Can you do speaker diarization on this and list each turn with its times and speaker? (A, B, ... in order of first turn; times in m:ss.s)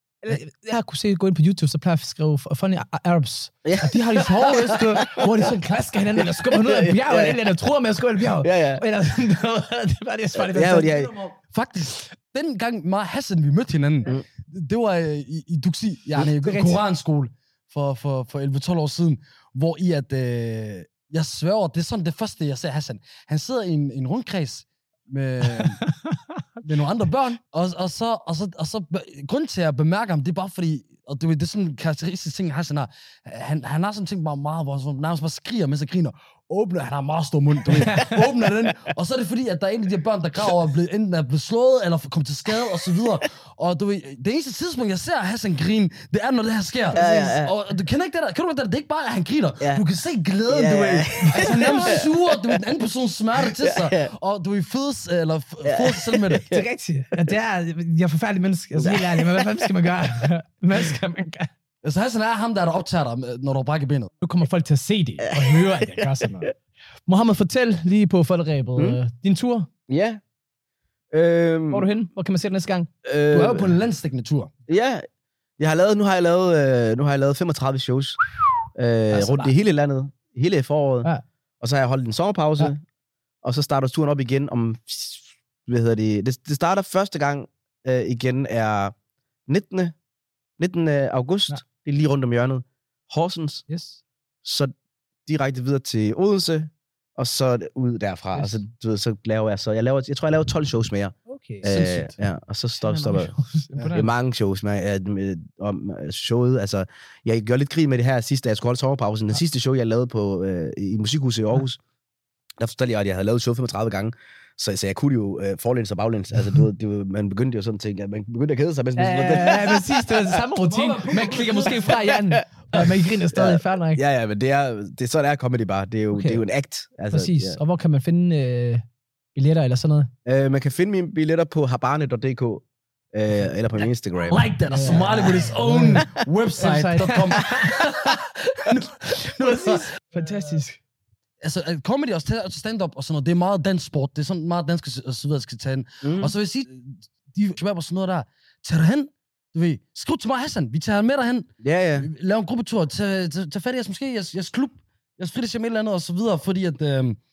0:00.2-0:11.3 A
0:03.6-0:05.3 B
0:04.1-0:05.0 C
0:06.2-0:07.5 B
0:08.4-0:08.8 B
0:10.4-0:11.2 B
0:11.5-0:25.8 C
0:16.2-0:16.8 A
0:25.6-0:26.2 A
0:26.6-0:56.5 C
0:37.8-0:38.1 A
0:46.9-0:47.5 B
0:50.5-0:52.6 B
0:51.2-0:51.7 A
0:53.4-0:54.1 B
0:55.6-0:56.6 B
0:56.5-1:01.5 A
0:58.8-0:59.6 B
1:01.8-1:04.1 C
1:04.2-1:06.5 A
1:05.2-1:06.1 B
1:07.1-1:09.7 A
1:09.9-1:10.2 B
1:11.1-1:11.9 B
1:11.7-1:12.9 A
1:13.0-1:13.7 B
1:13.3-1:14.5 C
1:14.7-1:15.0 B
1:15.6-1:21.1 B
1:19.1-1:19.5 A
1:21.6-1:22.8 B
1:23.4-1:28.9 B
1:29.5-1:29.9 B
1:30.6-1:33.6 B
1:33.7-1:34.0 A
1:34.4-1:34.7 B
1:35.2-1:43.3 B
1:41.3-1:41.7 A
1:41.6-1:42.2 C
1:42.8-1:44.1 A
1:43.9-1:51.8 B
1:52.6-2:00.2 B
1:59.0-2:04.0 A
2:00.6-2:02.0 C
2:02.7-2:07.6 B
2:06.1-2:06.4 A
2:07.1-2:08.8 A
2:09.3-2:10.1 A
2:10.2-2:15.1 B
2:14.3-2:19.8 C
2:14.7-2:17.9 A
2:19.0-2:20.8 A
2:21.4-2:37.2 C
2:26.0-2:26.3 B
2:31.6-2:32.1 B